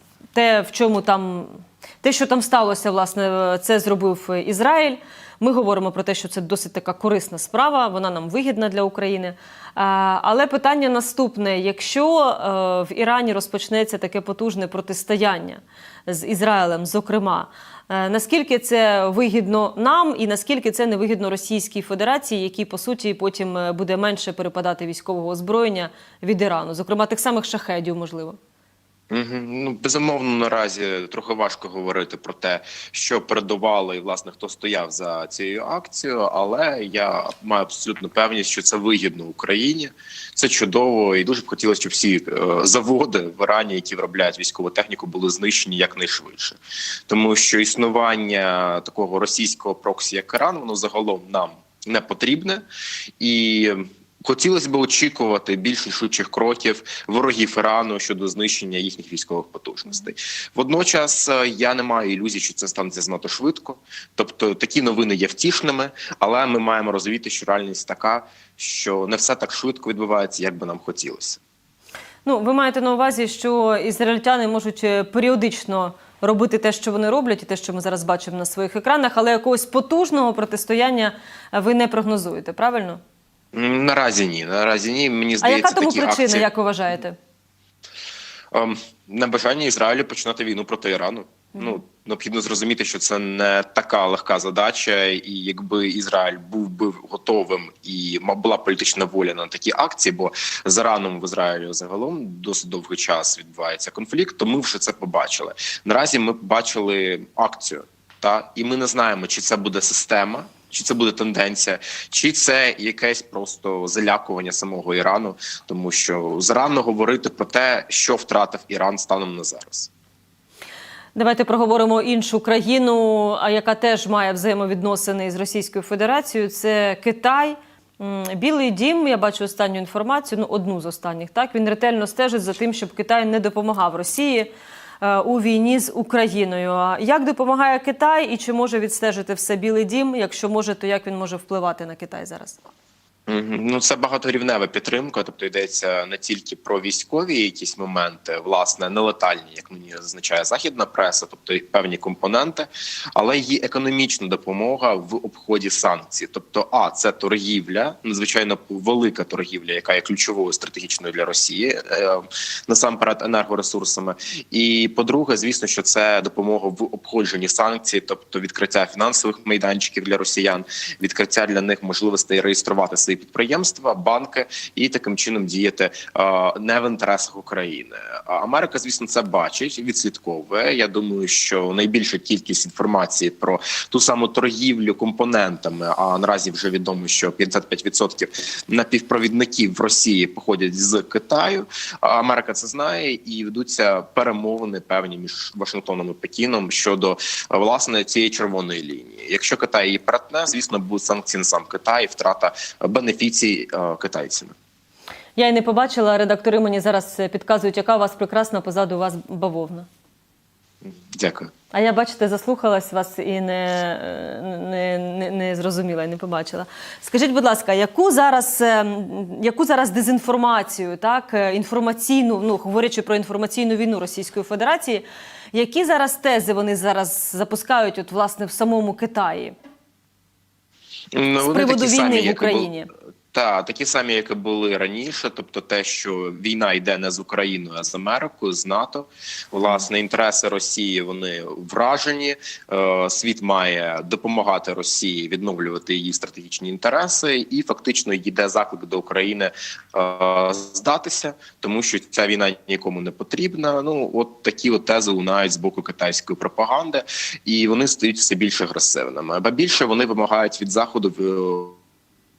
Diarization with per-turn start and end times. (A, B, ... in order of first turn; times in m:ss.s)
0:00.3-0:28.4 A
0:29.1-0:52.6 B
0:53.2-1:11.4 B
1:12.2-1:23.0 A
1:23.5-1:26.5 B
1:25.4-1:27.2 A
1:28.5-1:59.9 B
1:31.6-1:31.8 A
2:01.1-2:14.5 A
2:15.0-2:22.6 A
2:23.3-3:24.5 B
3:25.4-3:29.9 A
3:30.8-3:31.5 B
3:31.7-3:49.6 A
3:51.1-3:52.7 B
3:51.4-3:52.9 A
3:53.3-4:21.8 B